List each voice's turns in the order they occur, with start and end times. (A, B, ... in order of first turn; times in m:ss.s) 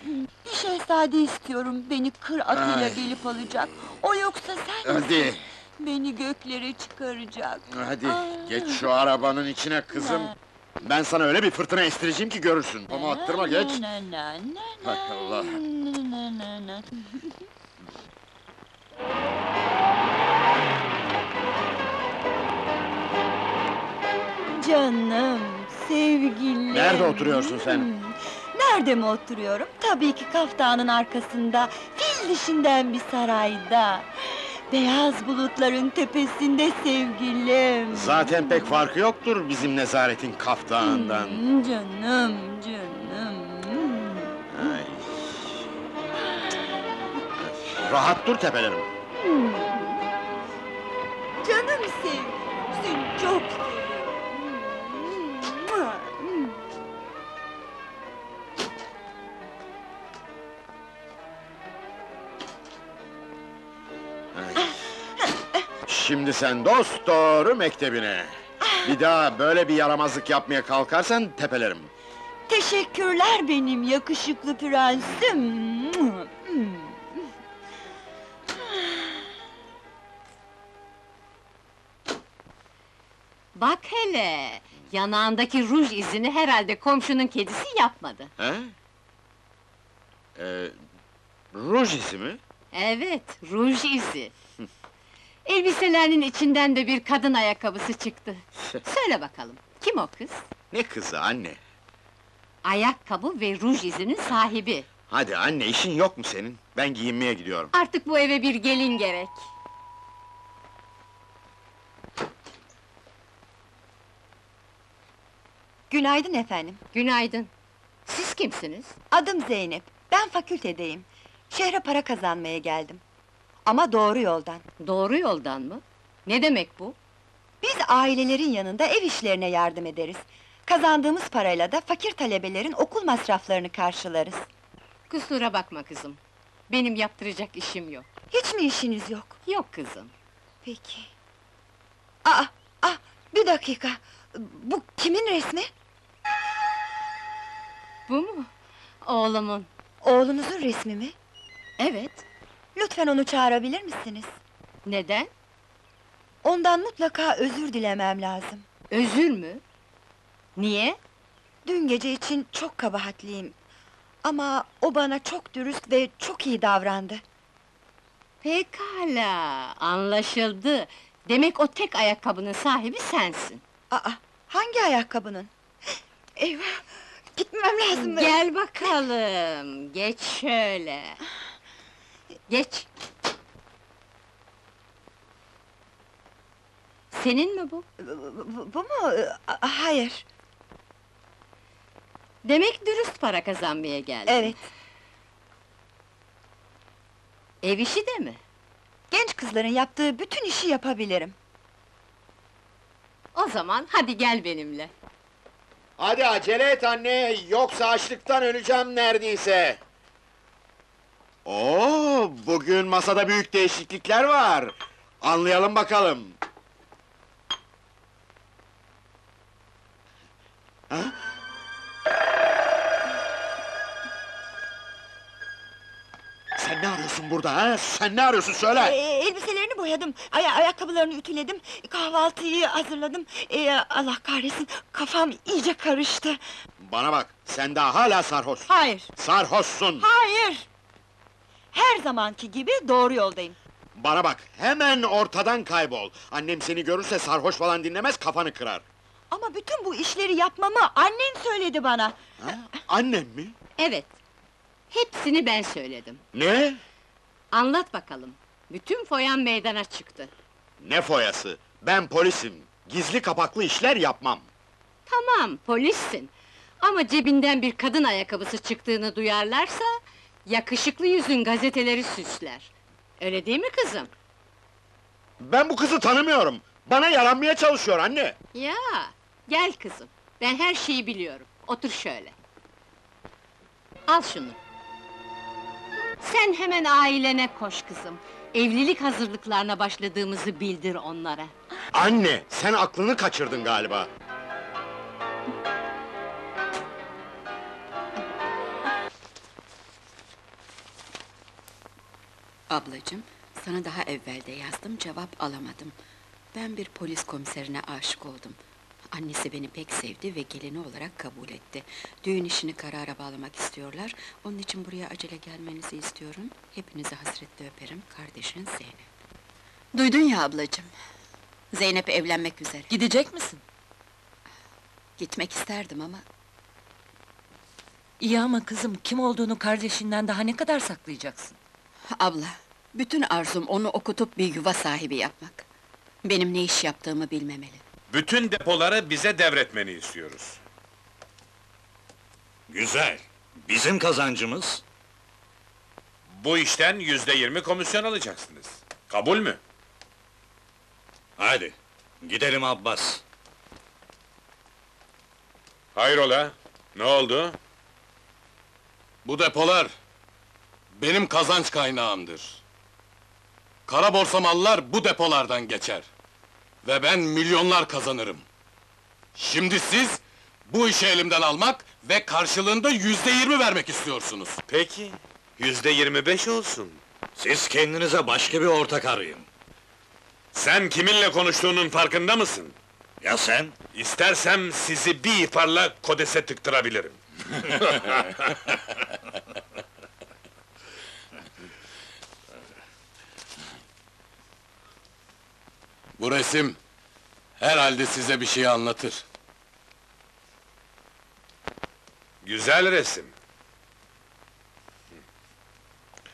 0:00.4-0:08.9 A
0:02.5-0:03.1 B
0:04.8-0:05.4 B
0:07.7-0:13.8 B
0:09.9-0:10.3 A
0:12.9-0:16.8 A
0:14.8-0:15.6 B
0:24.5-0:34.1 A
0:26.7-0:27.9 B
0:34.7-0:38.8 A
0:37.9-0:41.4 B
0:40.8-0:44.3 A
0:44.5-0:45.4 B
0:47.7-0:48.9 B
0:51.4-0:54.3 A
1:04.3-1:04.7 B
1:05.9-1:11.9 B
1:12.5-1:16.8 A
1:23.5-1:28.3 C
1:28.4-1:28.7 B
1:30.4-1:30.7 B
1:31.5-1:32.4 B
1:32.7-1:34.3 C
1:35.4-1:40.4 C
1:40.7-1:41.6 B
1:42.6-1:44.8 C
1:45.1-1:47.7 B
1:47.7-1:49.4 C
1:55.9-1:56.8 D
1:56.9-1:57.5 C
1:58.1-1:58.9 C
1:59.1-2:03.0 D
2:03.6-2:04.6 D
2:04.8-2:07.0 C
2:07.6-2:14.4 D
2:15.1-2:18.0 C
2:18.3-2:19.4 D
2:19.4-2:20.1 C
2:20.6-2:21.1 D
2:22.2-2:25.7 D
2:28.1-2:28.5 C
2:29.0-2:29.7 C
2:30.0-2:31.1 D
2:31.8-2:32.2 C
2:32.7-2:34.3 D
2:34.8-2:35.3 C
2:36.4-2:38.6 D
2:38.9-2:39.6 C
2:40.6-2:41.0 C
2:41.6-2:43.5 D
2:44.2-2:47.2 D
2:48.4-2:53.6 C
2:53.9-2:55.5 D
2:56.4-2:56.8 D
2:57.3-2:58.4 D
2:58.0-3:01.2 C
3:02.5-3:02.9 C
3:07.1-3:07.8 C
3:08.0-3:10.2 D
3:12.4-3:14.5 C
3:14.3-3:14.6 D
3:17.6-3:18.4 C
3:19.1-3:21.3 D
3:23.3-3:24.9 C
3:26.0-3:29.8 B
3:31.4-3:36.4 B
3:40.9-3:41.1 B
3:46.6-3:49.0 B
3:48.8-3:56.4 D
3:56.8-4:00.0 B
3:58.7-3:59.1 D
4:00.0-4:00.6 D
4:01.7-4:03.6 D
4:04.0-4:08.8 B
4:09.3-4:12.2 D
4:12.4-4:13.5 B
4:13.8-4:14.1 C
4:14.9-4:16.2 C
4:16.3-4:16.8 B
4:17.5-4:20.3 C
4:20.8-4:24.5 B
4:25.1-4:29.9 C
4:30.4-4:34.1 C
4:35.4-4:38.4 B
4:38.5-4:42.3 C
4:44.1-4:44.6 C
4:46.2-4:51.5 C
4:51.9-4:54.1 B
5:02.7-5:06.0 E
5:06.5-5:08.6 E
5:09.1-5:19.1 E
5:21.7-5:22.9 E
5:22.9-5:23.5 F
5:25.2-5:26.2 E
5:30.1-5:31.5 F
5:32.1-5:35.6 E
5:36.2-5:37.8 E
5:38.1-5:40.6 G
5:42.7-5:44.8 H
5:46.4-5:49.6 G
5:51.4-5:53.2 H
5:55.9-5:57.6 G
5:59.2-5:59.9 I
6:01.0-6:02.6 I
6:03.9-6:06.1 I
6:06.8-6:08.4 I
6:09.3-6:14.6 I
6:14.7-6:17.0 G
6:17.4-6:19.4 H
6:20.5-6:22.7 G
6:23.2-6:23.7 H
6:23.9-6:27.2 G
6:36.2-6:36.8 I
6:37.6-6:39.2 I
6:42.4-6:43.3 G